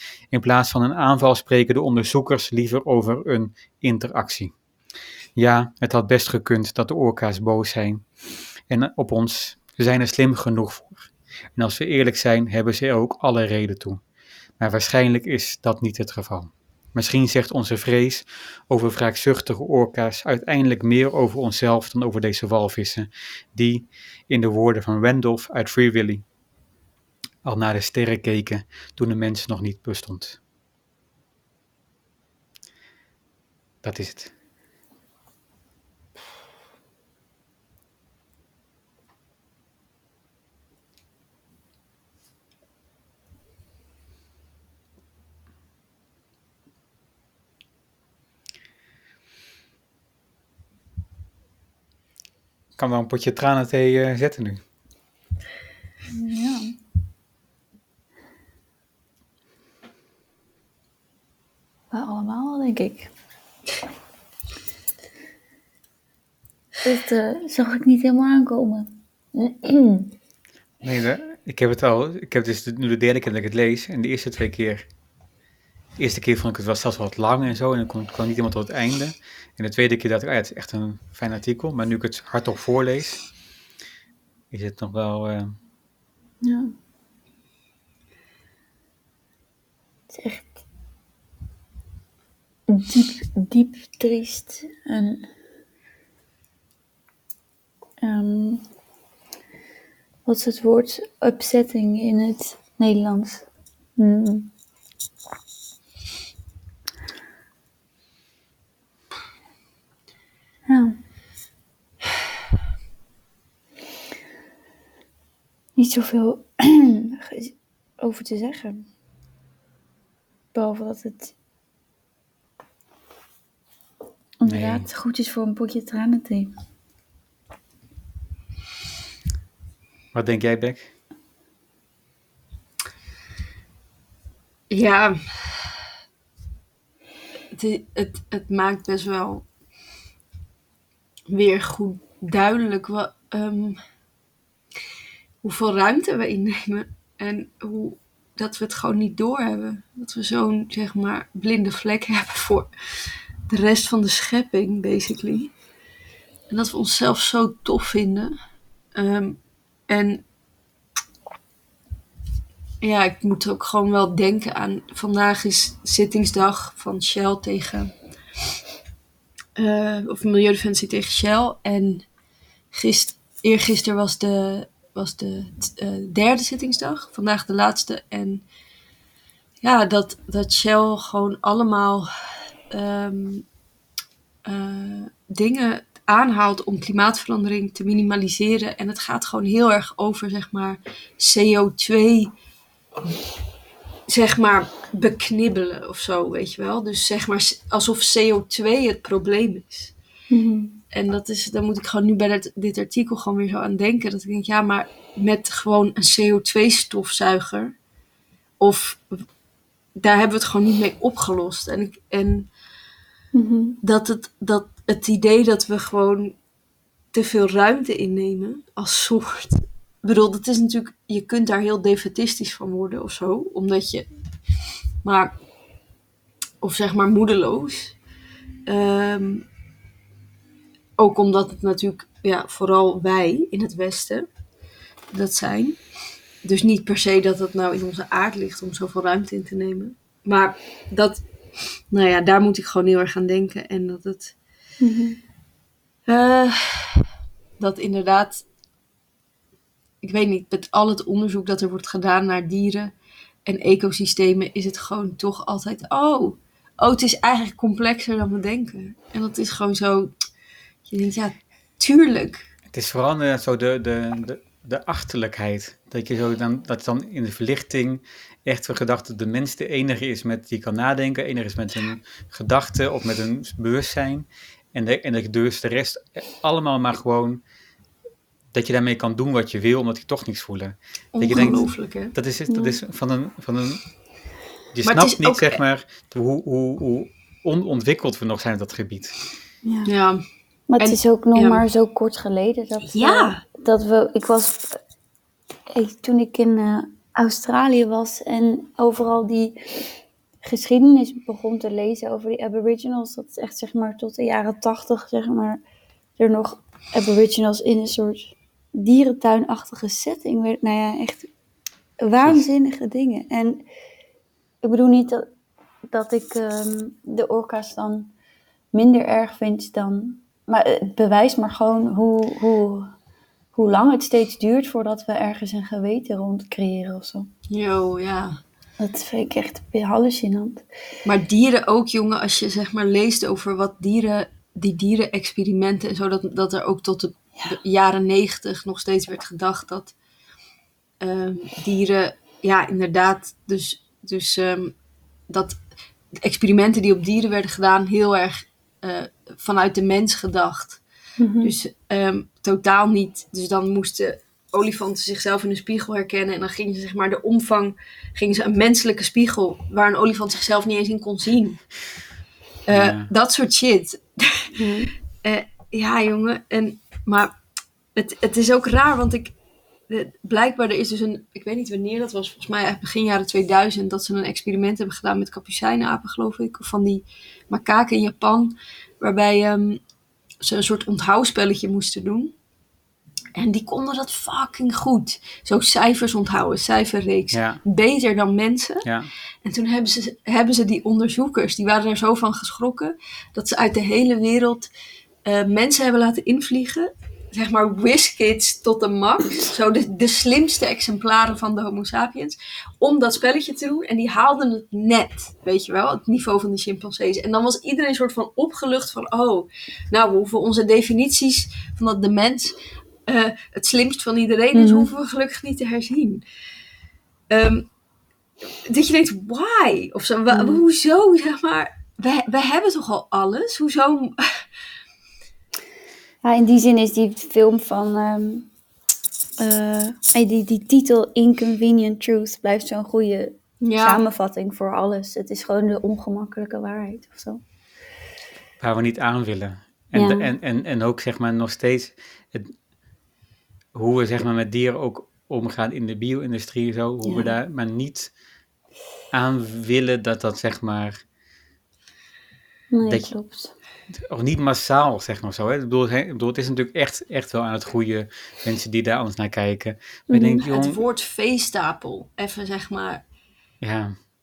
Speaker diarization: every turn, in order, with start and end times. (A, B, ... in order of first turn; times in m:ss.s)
0:00.3-0:04.5 A
0:05.4-0:08.0 A
0:08.7-0:14.0 A
0:14.6-0:26.2 A
0:27.4-0:30.4 A
0:33.8-0:34.3 A
0:52.8-0:54.6 A
0:56.1-0:56.7 B
1:01.9-1:03.1 B
1:06.8-1:10.1 B
1:10.8-1:14.8 A
1:16.0-1:23.2 A
1:24.5-1:25.5 A
1:26.4-1:26.7 B
1:30.1-1:30.6 B
1:32.7-1:35.3 B
1:38.0-1:38.6 B
1:40.2-1:43.4 B
1:44.0-1:44.5 B
1:50.7-1:51.0 B
1:55.8-1:58.8 B
2:00.5-2:01.3 B
2:04.4-2:06.5 B
2:04.4-2:04.9 A
2:10.1-2:10.9 A
2:14.7-2:15.6 C
2:17.5-2:19.4 C
2:21.3-2:23.8 C
2:25.4-2:32.7 C
2:33.5-2:35.5 C
2:36.5-2:38.4 C
2:38.9-2:40.2 C
2:42.8-2:47.9 C
2:49.6-2:52.0 C
2:52.7-2:58.4 C
2:59.6-3:02.1 C
3:02.7-3:03.4 C
3:04.4-3:12.3 C
3:14.1-3:19.9 C
3:20.3-3:20.8 B
3:20.9-3:27.7 C
3:28.6-3:29.1 C
3:30.0-3:32.5 C
3:33.3-3:33.8 B
3:33.8-3:36.4 C
3:37.1-3:44.1 C
3:45.0-3:45.3 C
3:46.6-3:48.0 C
3:48.6-3:49.4 C
3:51.0-3:54.3 C
3:55.1-3:55.8 C
3:56.4-4:01.2 C
4:01.9-4:04.3 C
4:04.8-4:05.2 B
4:06.1-4:07.0 C
4:07.6-4:08.4 C
4:10.0-4:12.9 C
4:13.4-4:20.1 C
4:20.9-4:22.4 C
4:22.7-4:37.4 A
4:38.5-4:43.8 A
4:41.1-4:42.1 C
4:42.5-4:42.8 B
4:44.7-4:49.1 A
4:44.8-4:45.6 C
4:49.6-4:49.9 B
4:49.8-4:50.2 C
4:50.7-4:54.8 B
4:50.8-4:51.6 C
4:52.9-4:53.4 C
4:55.7-4:59.8 B
5:00.4-5:05.6 B
5:06.2-5:11.3 B
5:12.0-5:13.6 B
5:14.6-5:15.3 B
5:15.9-5:18.1 B
5:18.7-5:22.9 B
5:23.5-5:27.3 B
5:27.5-5:28.4 C
5:28.8-5:30.6 B
5:31.0-5:39.9 C
5:41.0-5:44.7 C
5:45.3-5:45.6 C
5:46.1-5:50.8 C
5:51.2-5:51.5 B
5:51.4-6:01.6 C
6:02.7-6:04.5 C
6:02.7-6:03.1 A
6:04.6-6:04.9 B
6:05.2-6:07.3 C
6:07.9-6:09.3 C
6:09.9-6:19.8 C
6:20.4-6:22.3 C
6:23.4-6:28.9 C
6:27.3-6:27.6 A
6:28.8-6:29.1 A
6:29.4-6:34.7 C
6:35.2-6:52.5 C
6:53.1-6:56.2 C
6:54.5-6:54.9 B
6:57.3-6:57.7 C
6:58.6-7:04.4 C
7:00.3-7:00.6 B
7:06.2-7:08.5 B
7:09.4-7:17.4 B
7:13.6-7:14.0 C
7:18.6-7:22.5 A
7:19.9-7:20.3 B
7:23.7-7:28.1 A
7:27.0-7:27.3 B
7:29.1-7:31.0 A
7:32.7-7:33.5 B
7:33.9-7:40.8 A
7:40.1-7:40.4 B
7:40.4-7:43.0 C
7:43.6-7:44.0 A